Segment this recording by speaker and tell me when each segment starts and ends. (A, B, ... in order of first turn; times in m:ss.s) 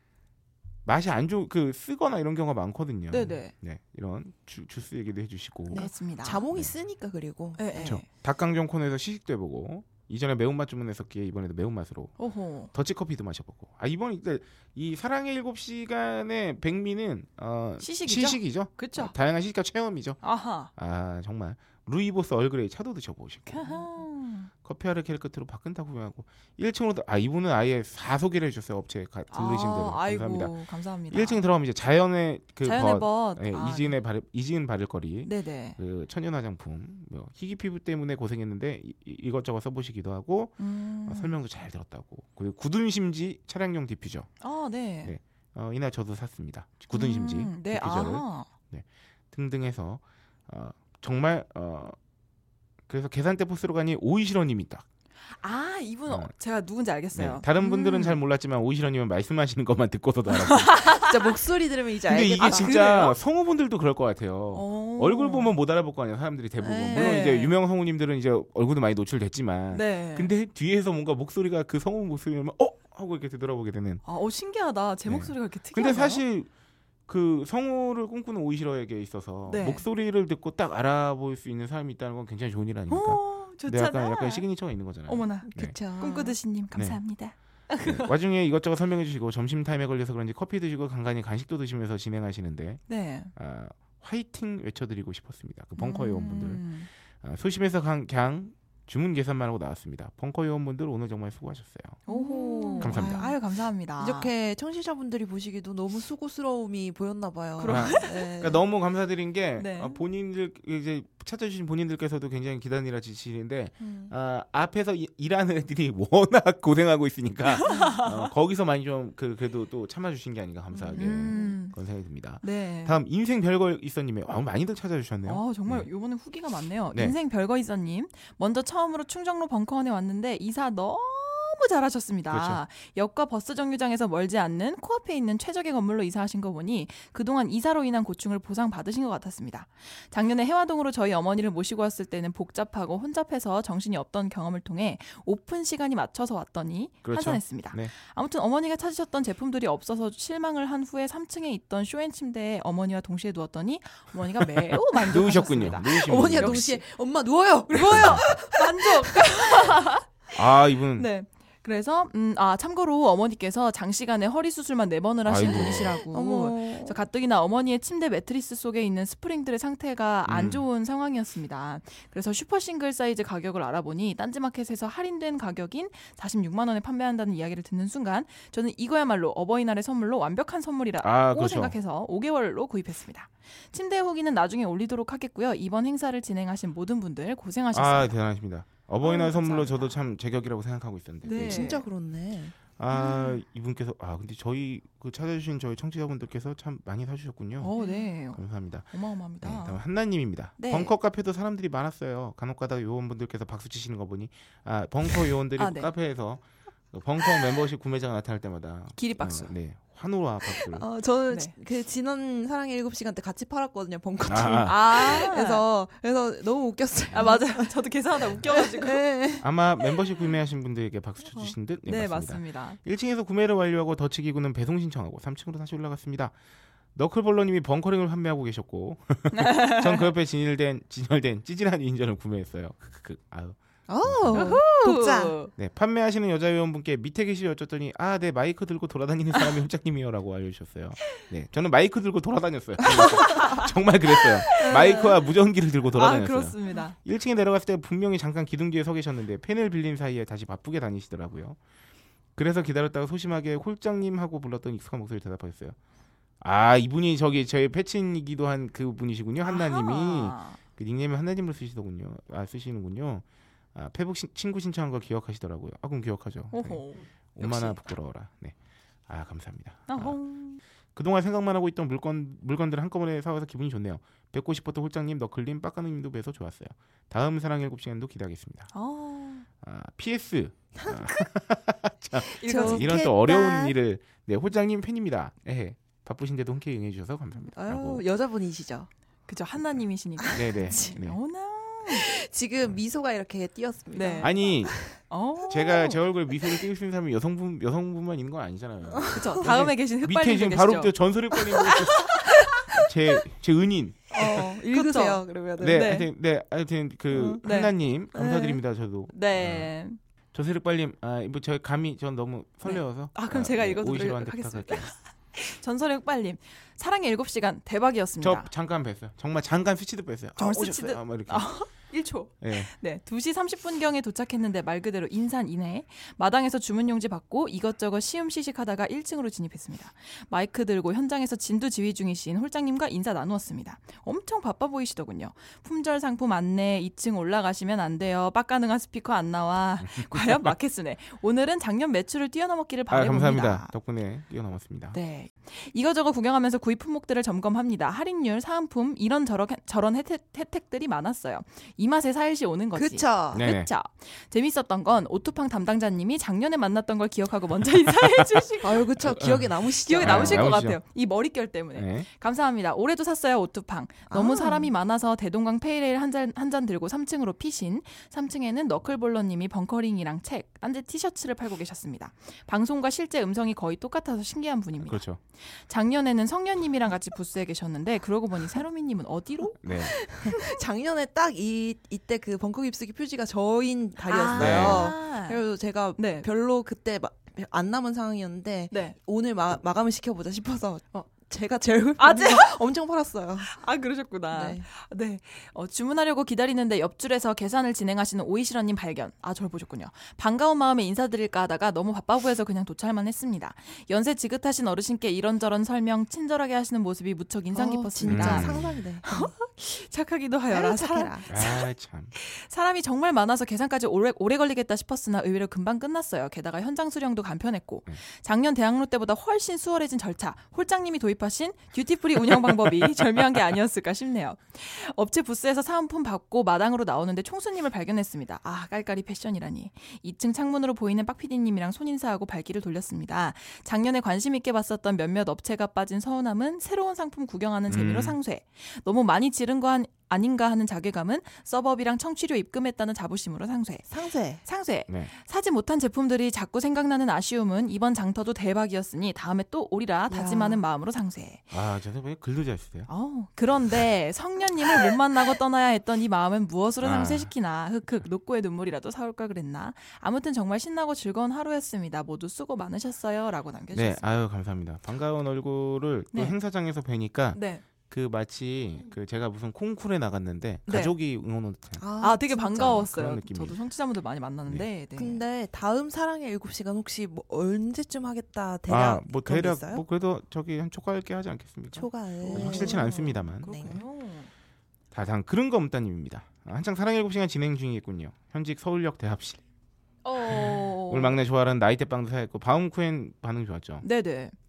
0:00.8-0:05.9 A
0:03.1-0:03.5 B
0:05.7-0:08.0 C
0:05.7-0:06.5 B
0:07.6-0:08.0 B
0:07.8-0:12.2 A
0:12.2-0:12.7 B
0:12.7-0:20.2 A
0:17.8-0:19.2 B
0:20.2-0:20.7 B
0:20.8-0:23.8 A
0:23.5-0:24.5 B
0:24.6-0:30.6 A
0:29.3-0:31.4 B
0:31.1-0:44.3 A
0:32.6-0:34.0 B
0:35.2-0:35.8 B
0:40.6-0:41.4 B
0:44.4-0:45.1 B
0:45.0-0:52.0 A
0:46.9-0:48.5 B
0:52.9-0:54.9 A
0:55.3-0:58.2 B
0:57.1-1:01.0 A
1:00.3-1:01.1 B
1:00.9-1:02.7 C
1:02.1-1:14.0 A
1:02.3-1:03.2 B
1:04.5-1:05.5 B
1:06.6-1:07.2 C
1:06.9-1:07.6 B
1:09.7-1:10.3 B
1:14.0-1:16.2 B
1:15.1-1:16.5 A
1:17.1-1:25.8 A
1:19.5-1:19.8 B
1:22.9-1:24.5 B
1:25.0-1:28.1 B
1:25.4-1:26.4 C
1:26.8-1:27.0 A
1:27.8-1:32.8 A
1:32.9-1:33.3 B
1:33.4-1:36.6 A
1:35.8-1:36.9 B
1:37.2-1:42.0 A
1:42.1-1:43.4 C
1:42.1-1:44.3 B
1:42.8-1:43.2 A
1:44.0-1:48.6 C
1:47.6-1:48.3 B
1:47.6-2:05.9 A
1:49.6-1:50.0 B
1:53.8-1:54.1 C
1:57.6-1:58.2 B
1:57.7-1:57.9 C
2:00.7-2:01.6 C
2:00.9-2:01.8 B
2:02.4-2:03.0 B
2:05.2-2:36.7 B
2:12.3-2:12.6 A
2:27.0-2:27.9 A
2:34.4-2:36.8 A
2:36.0-2:39.8 C
2:37.7-2:40.4 B
2:37.7-2:38.3 A
2:40.3-2:41.1 A
2:41.0-3:08.2 B
2:45.2-2:46.0 A
2:45.4-2:47.0 C
2:50.3-2:50.6 A
3:01.0-3:01.8 A
3:07.7-3:11.8 A
3:09.0-3:10.0 B
3:11.2-3:11.8 B
3:11.4-3:12.6 C
3:12.8-3:17.7 A
3:12.9-3:13.4 B
3:17.6-3:19.8 B
3:17.8-3:18.1 C
3:18.3-3:30.9 A
3:20.6-3:20.9 B
3:25.6-3:25.9 B
3:29.0-3:29.5 B
3:30.7-3:37.7 C
3:31.3-3:31.5 B
3:34.3-3:35.3 A
3:34.6-3:35.6 B
3:37.2-3:39.0 B
3:38.3-3:39.9 C
3:39.4-3:46.3 A
3:41.9-3:42.8 B
3:47.0-3:54.6 A
3:49.3-3:50.1 B
3:53.9-3:55.4 C
3:54.3-3:55.5 B
3:55.6-4:11.6 A
4:02.9-4:03.7 B
4:04.2-4:05.2 B
4:04.6-4:05.1 C
4:05.9-4:07.0 B
4:12.4-4:15.8 A
4:16.4-4:23.2 A
4:19.4-4:20.6 B
4:23.8-4:26.8 A
4:26.5-4:27.8 B
4:27.4-4:28.6 A
4:29.1-4:30.2 A
4:29.9-4:30.6 B
4:31.0-4:38.7 A
4:38.7-4:39.5 B
4:39.6-4:48.0 A
4:40.8-4:41.2 C
4:42.4-4:43.0 B
4:42.4-4:43.8 C
4:47.5-4:48.9 C
4:49.3-4:52.1 B
4:50.2-4:50.9 C
4:50.3-4:51.2 A
4:51.9-4:55.0 C
4:54.0-4:54.4 B
4:54.2-4:54.8 A
4:55.0-4:56.0 B
4:55.5-5:04.5 A
4:59.0-4:59.4 C
4:59.1-5:01.0 B
5:01.6-5:02.6 B
5:04.1-5:05.9 C
5:04.2-5:06.1 B
5:05.6-5:09.7 A
5:07.1-5:07.4 C
5:07.4-5:07.7 B
5:08.1-5:08.6 C
5:09.1-5:10.0 B
5:10.3-5:14.9 A
5:12.6-5:18.5 B
5:18.2-5:21.5 A
5:20.4-5:43.7 B
5:22.4-5:22.7 A
5:39.8-5:40.5 A
5:42.9-5:45.0 A
5:44.9-5:58.9 B
5:52.8-5:53.4 C
5:53.3-5:53.7 A
5:58.6-6:00.5 C
5:59.0-6:00.8 A
5:59.8-6:20.6 B
6:01.8-6:02.1 A
6:04.1-6:04.7 C
6:14.8-6:15.2 A
6:19.6-6:19.9 A
6:19.8-6:33.6 C
6:24.0-6:25.4 B
6:24.4-6:24.9 A
6:26.0-6:26.3 B
6:28.7-6:29.0 B
6:32.0-6:32.6 B
6:33.4-6:51.6 B
6:34.3-6:34.6 C
6:47.5-6:49.3 C
6:48.1-6:48.8 A
6:50.5-6:51.3 C
6:51.3-6:52.1 A
6:52.2-7:23.9 B
7:17.7-7:18.2 A
7:23.9-7:24.4 C
7:24.4-7:31.5 B
7:30.1-7:30.6 C
7:31.5-7:32.9 A
7:32.9-7:44.1 B
7:36.8-7:37.3 A
7:43.7-7:51.8 A
7:47.3-7:47.6 B
7:50.7-7:51.0 B
7:51.8-7:52.9 C
7:52.0-7:55.2 B
7:52.6-7:53.6 A
7:55.0-7:59.8 C
7:58.7-8:03.8 A
8:01.8-8:03.8 C
8:02.2-8:04.3 B
8:04.9-8:09.4 A
8:10.0-8:11.2 B
8:10.2-8:13.8 A
8:13.8-8:14.3 B